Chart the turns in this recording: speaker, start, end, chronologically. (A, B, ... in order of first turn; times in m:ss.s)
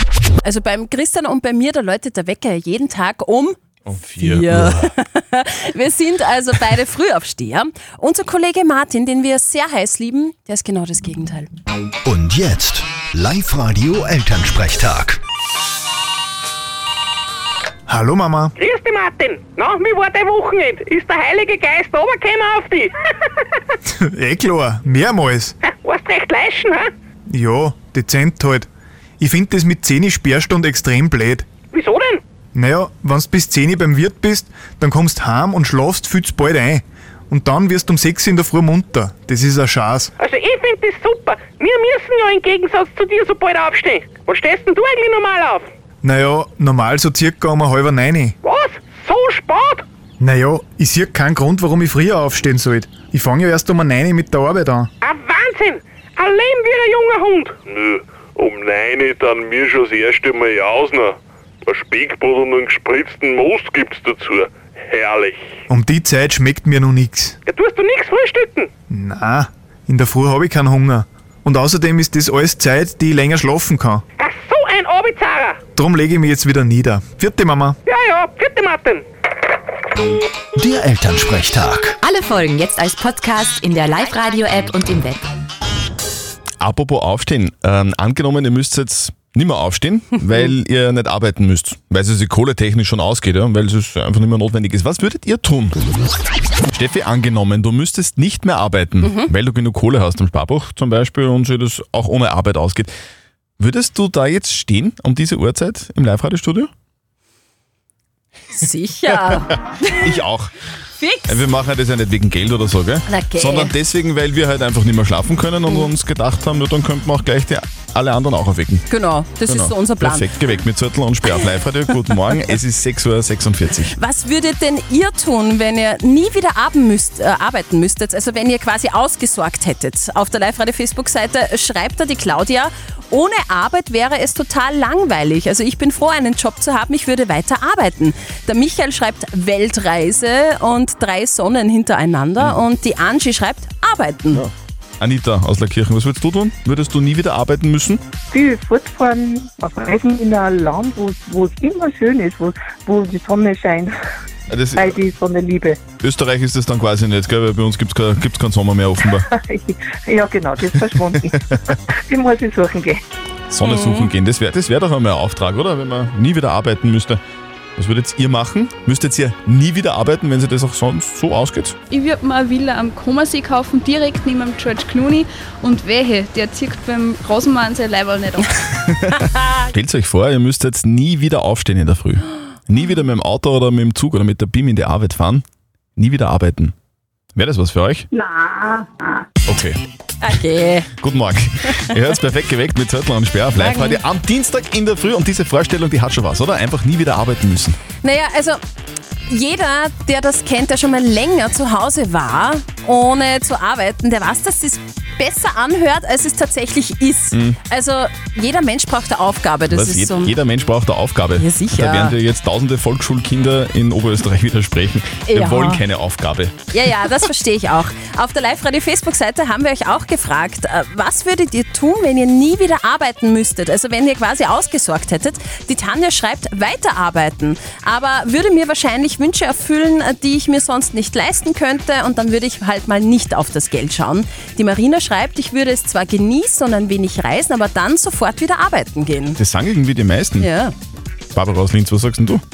0:00.4-0:03.6 A
0:03.8-0:04.7 B
0:04.1-0:11.5 A
0:12.0-0:15.2 C
0:17.9-0:18.5 D
0:18.6-0:22.9 E
0:24.0-0:25.5 D
0:25.6-0:26.9 E
0:27.3-0:28.7 D
0:29.2-0:31.4 D
0:31.7-0:32.2 E
0:32.5-0:40.1 D
0:40.2-0:45.7 E
0:46.0-0:48.3 D
0:48.4-0:49.8 E
0:50.2-0:54.9 D
0:55.0-0:57.5 E
0:57.6-1:05.5 F
1:05.7-1:07.4 D
1:07.5-1:08.7 E
1:08.9-1:14.0 D
1:14.2-1:15.6 E
1:15.8-1:17.8 D
1:17.9-1:19.0 E
1:20.6-1:22.0 C
1:22.0-1:25.2 G
1:26.6-1:35.8 B
1:36.7-1:42.9 B
1:39.0-1:39.3 A
1:43.6-1:46.7 B
1:48.5-1:49.9 A
1:49.8-1:50.5 B
1:51.0-1:51.4 A
1:51.3-1:58.9 B
1:53.1-1:53.7 A
1:58.9-2:00.3 A
1:59.5-2:03.9 B
2:03.8-2:24.4 A
2:24.3-2:28.0 B
2:28.3-2:34.0 H
2:34.5-2:35.0 B
2:34.7-2:35.8 H
2:36.0-2:39.3 B
2:39.4-2:43.0 H
2:41.1-2:41.7 B
2:43.5-2:47.2 B
2:43.6-2:44.1 A
2:47.8-2:51.8 B
2:51.9-2:58.7 I
2:59.0-3:05.4 B
3:06.0-3:06.7 B
3:07.3-3:08.1 B
3:08.1-3:08.8 H
3:09.5-3:09.8 B
3:10.2-3:10.9 A
3:11.0-3:17.8 B
3:13.6-3:14.0 A
3:18.0-3:18.6 A
3:19.3-3:30.3 A
3:27.3-3:27.6 B
3:29.7-3:36.5 B
3:31.4-3:32.2 A
3:35.3-3:35.8 A
3:36.7-3:59.4 A
3:59.4-4:00.5 B
4:00.4-4:00.7 A
4:01.3-4:02.4 B